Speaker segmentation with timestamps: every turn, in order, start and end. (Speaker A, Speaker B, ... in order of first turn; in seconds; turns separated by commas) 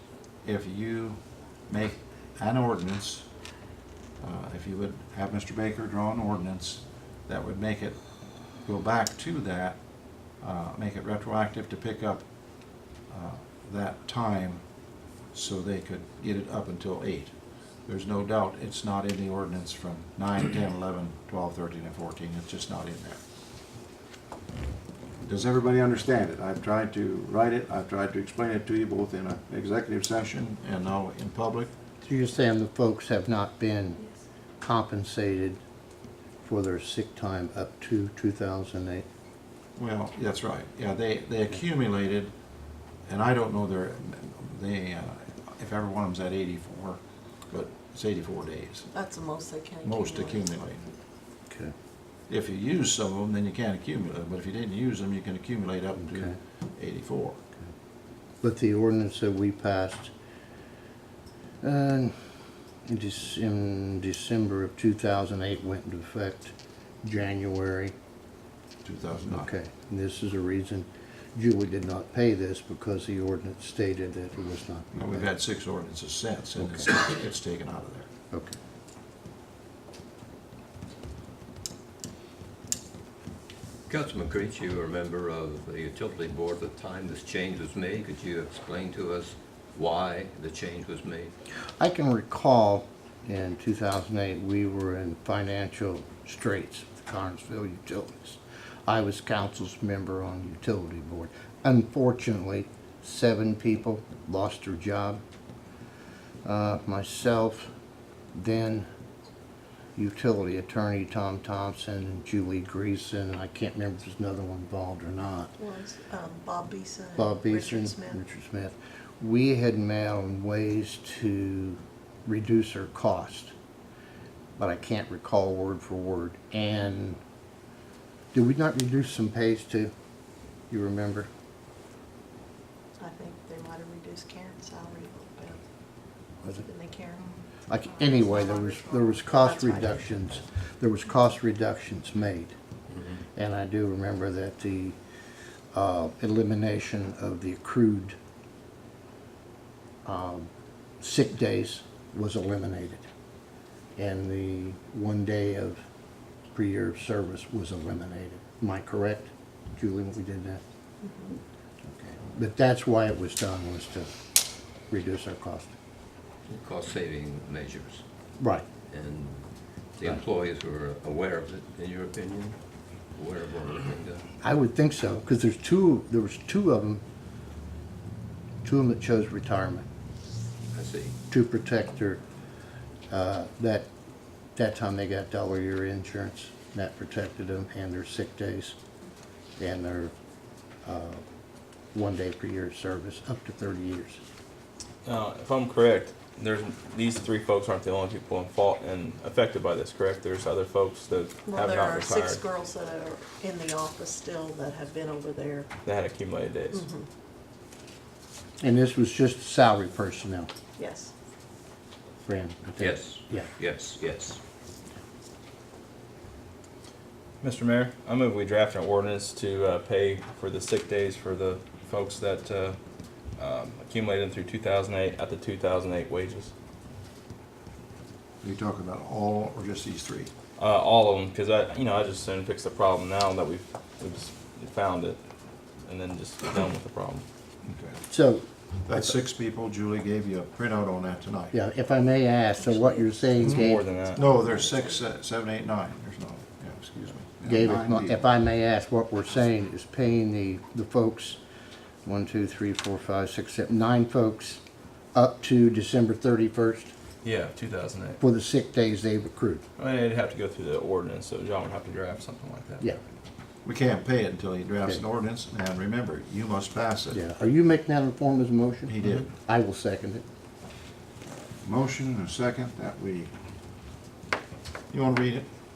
Speaker A: 0.4-3.3, Speaker A: 4.2-8.0, Speaker A: 8.6-9.8, Speaker A: 10.4-12.3, Speaker A: 13.1-14.6, Speaker A: 15.3-17.3, Speaker A: 17.9-23.2, Speaker A: 25.2-31.7, Speaker B: 32.0-34.0, Speaker B: 34.6-35.6, Speaker B: 36.4-39.1, Speaker A: 39.8-42.3, Speaker A: 43.1-48.9, Speaker C: 48.9-50.5, Speaker A: 49.8-50.8, Speaker A: 52.3-57.4, Speaker B: 56.0-56.4, Speaker B: 58.4-60.1, Speaker B: 61.6-62.2, Speaker B: 62.9-66.5, Speaker B: 67.0-67.9, Speaker A: 68.8-69.5, Speaker B: 69.3-75.3, Speaker A: 75.0-78.1, Speaker B: 76.6-76.9, Speaker B: 78.3-78.6, Speaker D: 83.9-91.3, Speaker B: 91.8-105.2, Speaker B: 106.4-107.7, Speaker B: 108.3-108.9, Speaker B: 110.0-115.5, Speaker C: 115.6-118.2, Speaker B: 117.2-123.5, Speaker B: 124.6-127.2, Speaker B: 128.3-129.9, Speaker B: 130.7-131.3, Speaker C: 133.0-135.6, Speaker C: 136.4-137.3, Speaker B: 137.7-142.6, Speaker C: 137.9-140.4, Speaker B: 143.3-145.0, Speaker B: 145.7-148.2, Speaker B: 150.1-153.1, Speaker B: 154.0-155.8, Speaker B: 156.5-160.6, Speaker C: 161.0-161.4, Speaker B: 161.9-164.1, Speaker B: 164.9-165.7, Speaker D: 166.5-168.0, Speaker B: 168.4-168.7, Speaker D: 168.9-172.6, Speaker D: 173.1-174.3, Speaker B: 174.4-177.0, Speaker B: 178.6-179.9, Speaker D: 180.7-181.2, Speaker B: 181.3-182.2, Speaker B: 183.1-183.9, Speaker B: 184.6-188.8, Speaker B: 189.6-190.1, Speaker B: 190.8-191.2, Speaker B: 191.9-194.2, Speaker E: 195.1-202.4, Speaker C: 201.5-205.7, Speaker E: 205.8-206.8, Speaker C: 206.7-207.1, Speaker B: 208.6-210.5, Speaker C: 210.8-211.1, Speaker B: 212.2-213.5, Speaker D: 212.8-214.4, Speaker E: 217.4-222.8, Speaker E: 223.4-226.5, Speaker A: 228.4-230.3, Speaker E: 230.6-235.2, Speaker E: 235.8-237.2, Speaker A: 237.6-238.0, Speaker B: 238.1-238.5, Speaker A: 238.9-241.6, Speaker B: 241.5-243.9, Speaker C: 242.6-243.4, Speaker E: 243.4-244.2, Speaker A: 243.4-248.3, Speaker C: 244.2-245.0, Speaker B: 247.4-251.4, Speaker B: 252.1-254.6, Speaker B: 255.1-256.9, Speaker E: 257.2-258.2, Speaker B: 258.2-259.6, Speaker E: 259.8-262.9, Speaker A: 263.6-267.2, Speaker B: 267.1-270.2, Speaker A: 268.9-269.3, Speaker A: 271.6-273.3, Speaker A: 274.9-275.5